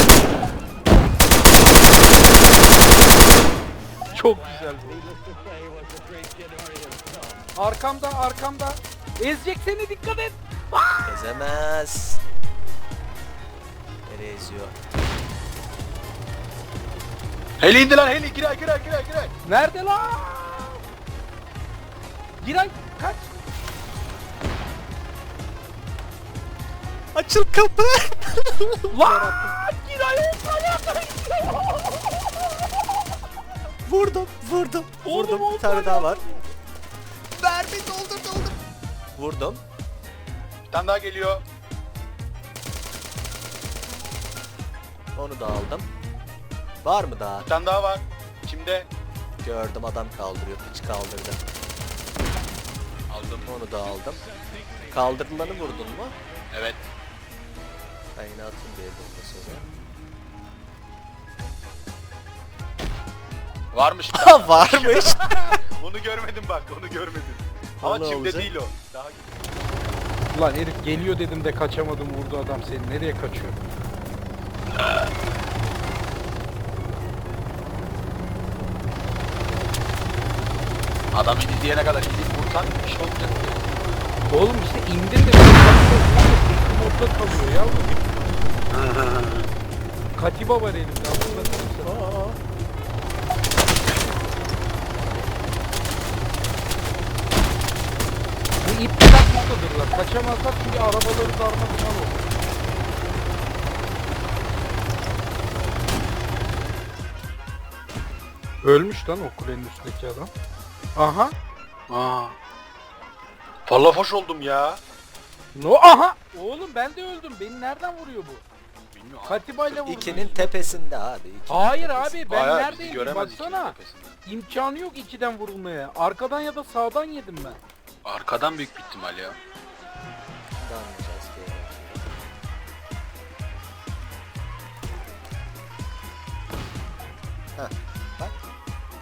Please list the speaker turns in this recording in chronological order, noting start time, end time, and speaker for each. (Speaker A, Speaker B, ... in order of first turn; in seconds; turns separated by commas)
Speaker A: 4.1-5.1, Speaker A: 7.5-11.2, Speaker B: 11.1-12.2, Speaker B: 14.1-14.8, Speaker C: 17.6-19.3, Speaker A: 19.4-20.8, Speaker A: 22.4-23.3, Speaker B: 27.1-29.5, Speaker A: 28.9-32.4, Speaker B: 33.9-36.3, Speaker A: 35.0-36.5, Speaker B: 37.4-38.6, Speaker B: 39.2-39.6, Speaker C: 40.7-41.4, Speaker B: 45.1-45.9, Speaker B: 46.8-47.5, Speaker C: 47.4-48.9, Speaker B: 49.4-51.4, Speaker C: 53.1-54.0, Speaker B: 53.5-54.2, Speaker B: 54.9-56.1, Speaker C: 56.5-56.9, Speaker B: 58.2-59.7, Speaker C: 63.7-69.3, Speaker B: 64.1-65.6, Speaker B: 67.8-68.5, Speaker A: 70.3-73.6, Speaker C: 74.8-75.0, Speaker C: 81.1-83.7, Speaker A: 84.3-88.0, Speaker C: 88.7-89.5, Speaker A: 90.2-92.0, Speaker B: 91.1-92.4, Speaker B: 95.0-95.5, Speaker A: 98.6-102.2, Speaker A: 108.6-110.3, Speaker A: 111.0-111.3, Speaker C: 111.9-112.4, Speaker C: 113.7-114.8, Speaker A: 115.5-118.4, Speaker C: 118.9-120.4, Speaker A: 119.2-120.8, Speaker B: 119.8-122.2, Speaker A: 121.5-127.6, Speaker C: 122.3-124.2, Speaker C: 128.0-129.4, Speaker B: 130.5-132.1, Speaker B: 137.6-138.4